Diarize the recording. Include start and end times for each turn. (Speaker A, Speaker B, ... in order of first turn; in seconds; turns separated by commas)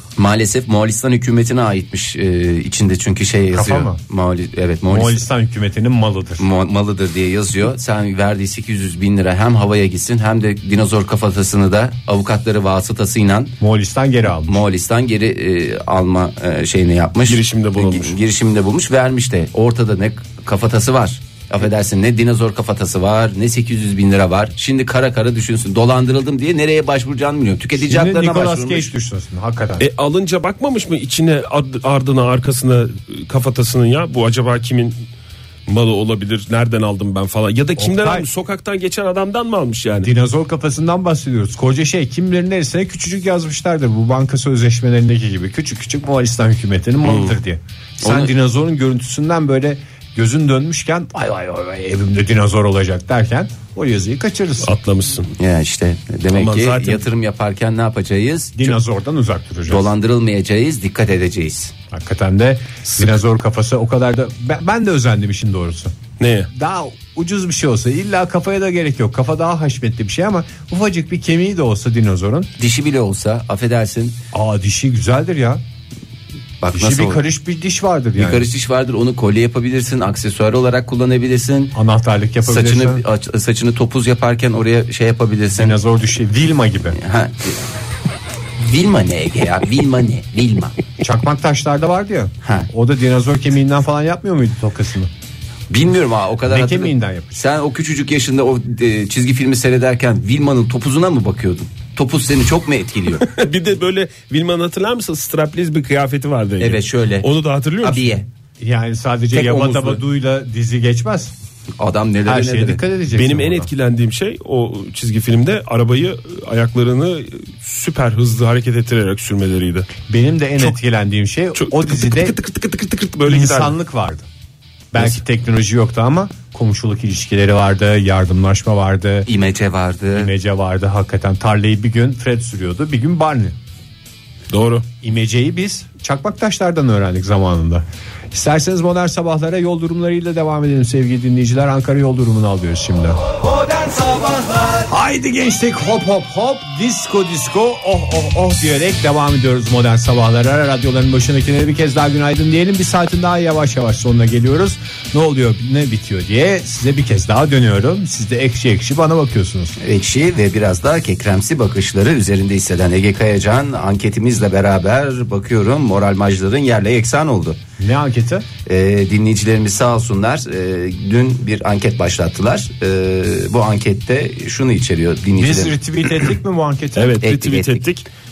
Speaker A: 0.2-5.2, Speaker B: 3.5-4.0, Speaker B: 4.9-6.5, Speaker A: 6.4-13.6, Speaker B: 13.6-14.6, Speaker A: 14.5-28.9, Speaker C: 17.3-18.2, Speaker B: 27.8-29.9, Speaker C: 29.8-35.0, Speaker C: 35.7-40.1, Speaker B: 37.8-38.3, Speaker B: 40.0-54.8, Speaker C: 47.0-47.3, Speaker A: 48.0-48.3, Speaker C: 54.6-55.3, Speaker A: 55.4-58.8, Speaker C: 56.3-57.0, Speaker B: 58.6-59.9, Speaker A: 59.7-61.7, Speaker B: 61.9-66.0, Speaker C: 66.2-66.5, Speaker B: 66.5-72.5, Speaker A: 72.6-74.2, Speaker B: 74.3-75.6, Speaker A: 76.6-77.2, Speaker B: 76.7-78.5, Speaker A: 78.2-81.7, Speaker B: 81.7-83.0, Speaker A: 82.4-85.8, Speaker B: 85.5-87.0, Speaker A: 86.9-87.6, Speaker A: 88.6-90.8, Speaker B: 91.0-95.1, Speaker A: 92.4-92.7, Speaker A: 95.7-103.3, Speaker B: 96.5-97.4, Speaker C: 103.2-108.1, Speaker A: 106.6-107.3, Speaker A: 107.8-108.3, Speaker B: 108.6-111.3, Speaker C: 109.4-110.0, Speaker A: 111.8-112.8, Speaker B: 112.3-113.7, Speaker C: 113.1-119.9, Speaker B: 120.1-122.4, Speaker C: 121.6-123.8, Speaker B: 123.2-124.2, Speaker B: 124.9-129.3, Speaker A: 129.3-130.3, Speaker B: 130.1-133.6, Speaker C: 134.5-134.9, Speaker B: 135.0-143.2, Speaker B: 144.8-159.8, Speaker A: 159.8-167.6, Speaker B: 167.8-168.5, Speaker A: 168.7-175.8, Speaker B: 175.3-177.2, Speaker C: 177.0-178.1, Speaker A: 177.2-177.9